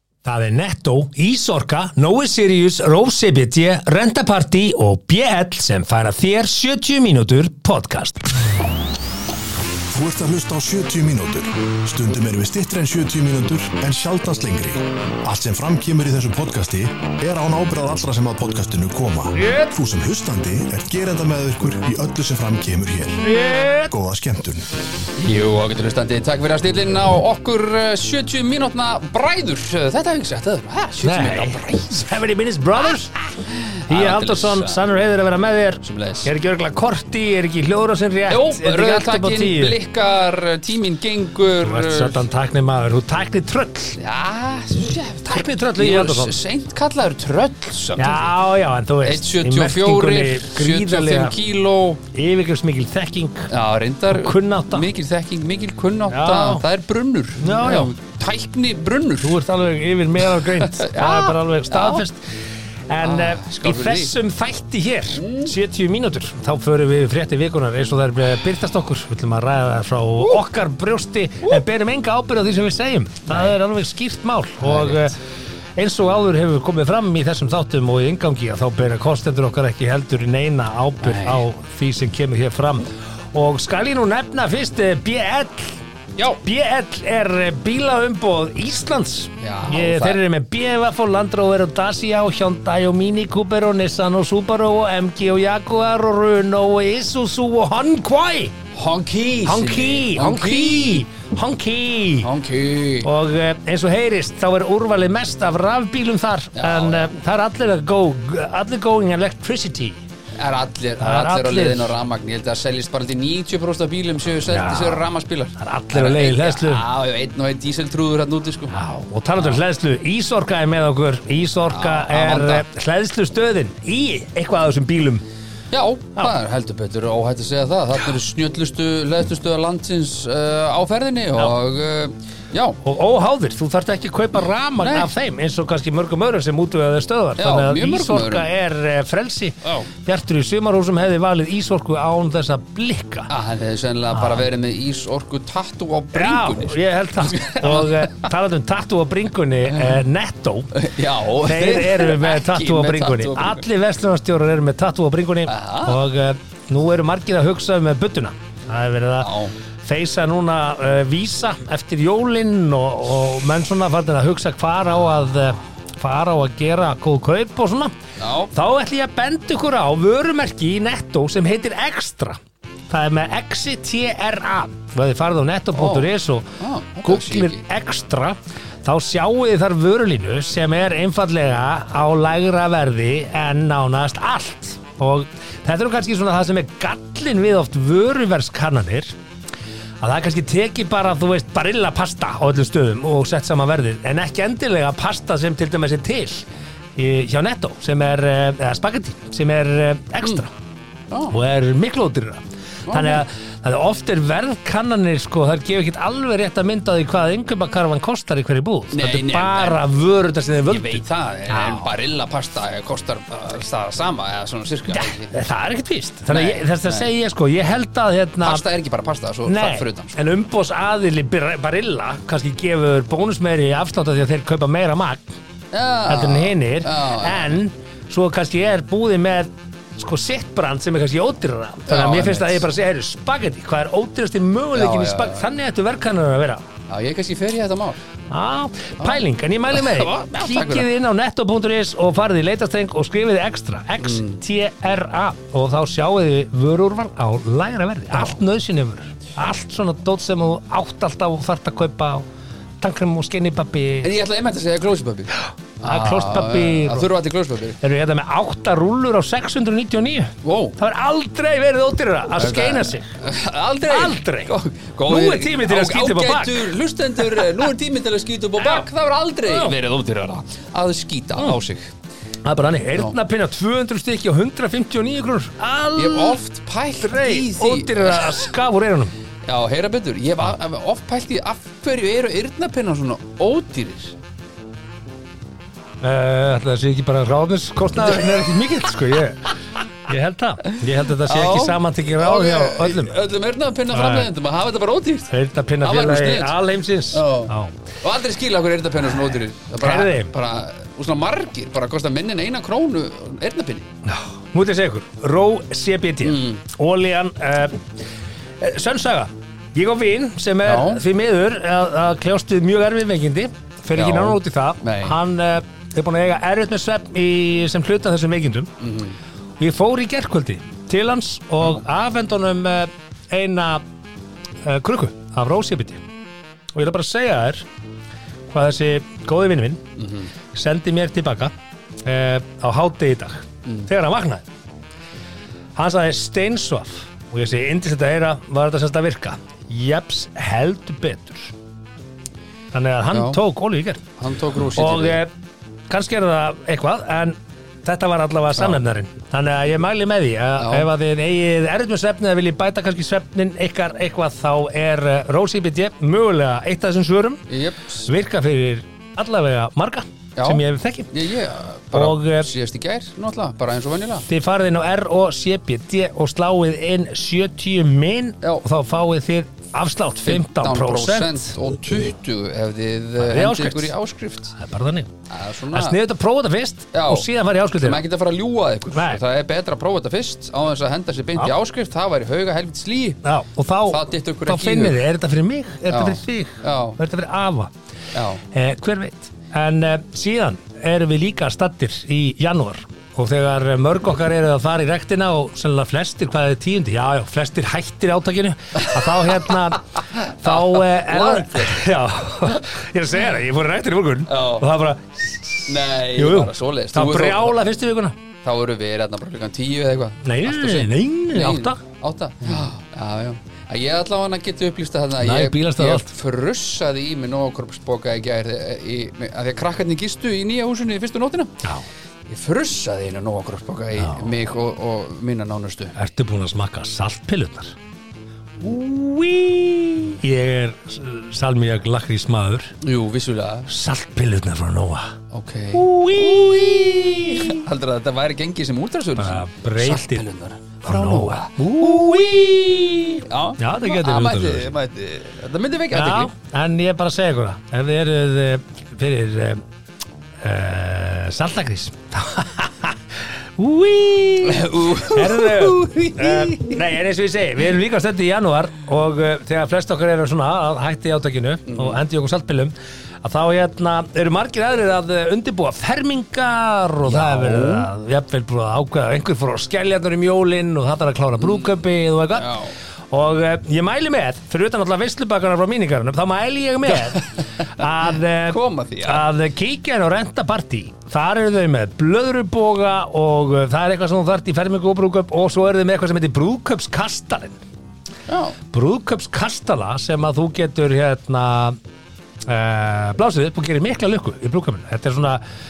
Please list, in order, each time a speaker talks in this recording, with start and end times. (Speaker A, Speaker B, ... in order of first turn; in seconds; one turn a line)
Speaker A: 0.2-8.3
Speaker B: 9.9-23.3
Speaker A: 19.4-19.8
Speaker A: 23.2-23.9
Speaker B: 23.9-24.7
Speaker C: 25.2-32.1
Speaker A: 31.0-33.2
Speaker C: 33.2-34.8
Speaker A: 33.9-39.8
Speaker C: 35.8-36.3
Speaker C: 38.3-42.2
Speaker A: 41.6-44.0
Speaker C: 44.0-48.3
Speaker A: 45.3-46.4
Speaker A: 48.0-51.4
Speaker C: 49.0-52.0
Speaker A: 52.1-53.5
Speaker C: 53.5-59.4
Speaker A: 54.1-54.9
Speaker A: 56.1-56.6
Speaker A: 57.4-57.9
Speaker A: 59.2-75.2
Speaker C: 60.4-62.0
Speaker C: 63.0-64.1
Speaker C: 65.2-65.5
Speaker C: 73.3-73.5
Speaker C: 74.6-75.2
Speaker A: 75.8-85.8
Speaker C: 81.0-81.5
Speaker A: 86.4-98.6
Speaker C: 89.4-90.2
Speaker C: 98.8-101.0
Speaker A: 99.5-102.3
Speaker C: 102.2-103.1
Speaker A: 103.0-110.0
Speaker C: 106.6-107.1
Speaker C: 110.4-118.7
Speaker A: 111.0-111.9
Speaker A: 114.5-115.1
Speaker A: 115.6-116.8
Speaker A: 118.7-125.2
Speaker C: 121.7-122.7
Speaker C: 125.7-132.8
Speaker A: 132.8-143.3
Speaker C: 134.8-135.1
Speaker C: 137.4-138.5
Speaker C: 139.6-139.9
Speaker C: 143.3-148.3
Speaker A: 144.1-144.5
Speaker A: 146.2-150.9
Speaker C: 149.7-150.0
Speaker C: 150.7-153.6
Speaker A: 151.4-168.0
Speaker C: 155.5-156.0
Speaker C: 159.2-159.5
Speaker C: 168.2-168.5
Speaker A: 168.5-172.4
Speaker A: 172.9-176.5
Speaker C: 175.8-176.1
Speaker C: 176.6-177.6
Speaker A: 177.0-189.1
Speaker A: 190.0-196.4
Speaker A: 197.0-200.5
Speaker A: 201.3-211.9
Speaker C: 202.9-203.2
Speaker C: 208.9-209.8
Speaker C: 210.7-215.3
Speaker A: 214.9-218.6
Speaker C: 216.3-217.1
Speaker C: 218.4-220.2
Speaker A: 219.5-225.3
Speaker C: 225.7-227.6
Speaker A: 226.1-236.7
Speaker C: 231.9-232.7
Speaker C: 234.8-235.4
Speaker C: 236.9-238.0
Speaker A: 238.3-252.2
Speaker C: 239.0-240.9
Speaker C: 244.0-244.4
Speaker A: 252.8-254.1
Speaker C: 254.0-257.8
Speaker A: 255.8-257.1
Speaker A: 257.8-263.1
Speaker C: 260.4-260.8
Speaker C: 262.4-271.9
Speaker A: 263.9-264.5
Speaker A: 265.1-266.7
Speaker A: 267.2-267.7
Speaker A: 268.6-268.9
Speaker A: 269.4-269.8
Speaker A: 272.4-276.4
Speaker C: 276.0-278.4
Speaker A: 277.0-279.1
Speaker C: 279.4-284.1
Speaker A: 286.0-293.1
Speaker C: 290.7-295.3
Speaker A: 293.9-294.3
Speaker A: 295.3-297.8
Speaker C: 295.8-296.6
Speaker C: 297.1-303.9
Speaker A: 299.8-300.3
Speaker A: 304.1-307.9
Speaker C: 306.2-306.6
Speaker A: 308.6-318.7
Speaker C: 310.6-311.0
Speaker C: 313.9-315.2
Speaker C: 318.8-319.2
Speaker A: 319.6-323.8
Speaker A: 324.6-326.0
Speaker A: 326.8-327.6
Speaker A: 328.5-329.8
Speaker C: 330.0-330.3
Speaker A: 330.5-331.5
Speaker A: 332.1-334.5
Speaker A: 335.8-341.5
Speaker A: 342.7-344.1
Speaker C: 343.1-343.4
Speaker C: 344.2-345.2
Speaker A: 344.8-345.3
Speaker A: 345.9-357.5
Speaker C: 350.6-350.9
Speaker C: 357.5-358.1
Speaker A: 358.1-361.1
Speaker C: 360.4-364.3
Speaker A: 361.9-362.5
Speaker A: 364.3-371.5
Speaker C: 370.2-374.6
Speaker A: 373.2-373.9
Speaker A: 374.6-375.1
Speaker C: 375.3-376.0
Speaker A: 375.7-378.0
Speaker C: 376.9-377.3
Speaker C: 377.8-383.2
Speaker A: 378.9-379.2
Speaker A: 383.2-387.7
Speaker C: 383.9-385.0
Speaker C: 385.9-387.0
Speaker C: 388.1-388.4
Speaker A: 388.5-408.2
Speaker C: 398.8-399.5
Speaker C: 400.2-401.8
Speaker C: 404.3-404.6
Speaker C: 405.7-407.6
Speaker C: 408.4-421.6
Speaker A: 410.2-411.8
Speaker A: 415.2-416.1
Speaker C: 422.3-425.9
Speaker A: 424.0-424.3
Speaker A: 426.0-427.8
Speaker A: 428.6-432.8
Speaker C: 432.8-433.7
Speaker A: 433.7-435.2
Speaker C: 435.3-442.4
Speaker A: 435.7-437.6
Speaker A: 439.2-440.3
Speaker A: 440.8-444.7
Speaker C: 443.1-446.3
Speaker A: 445.9-449.6
Speaker A: 450.4-487.6
Speaker C: 454.4-456.9
Speaker C: 461.7-462.0
Speaker C: 467.1-467.9
Speaker C: 471.4-471.7
Speaker C: 472.3-472.7
Speaker C: 478.4-479.3
Speaker C: 488.3-488.6
Speaker A: 488.7-491.8
Speaker A: 492.5-495.4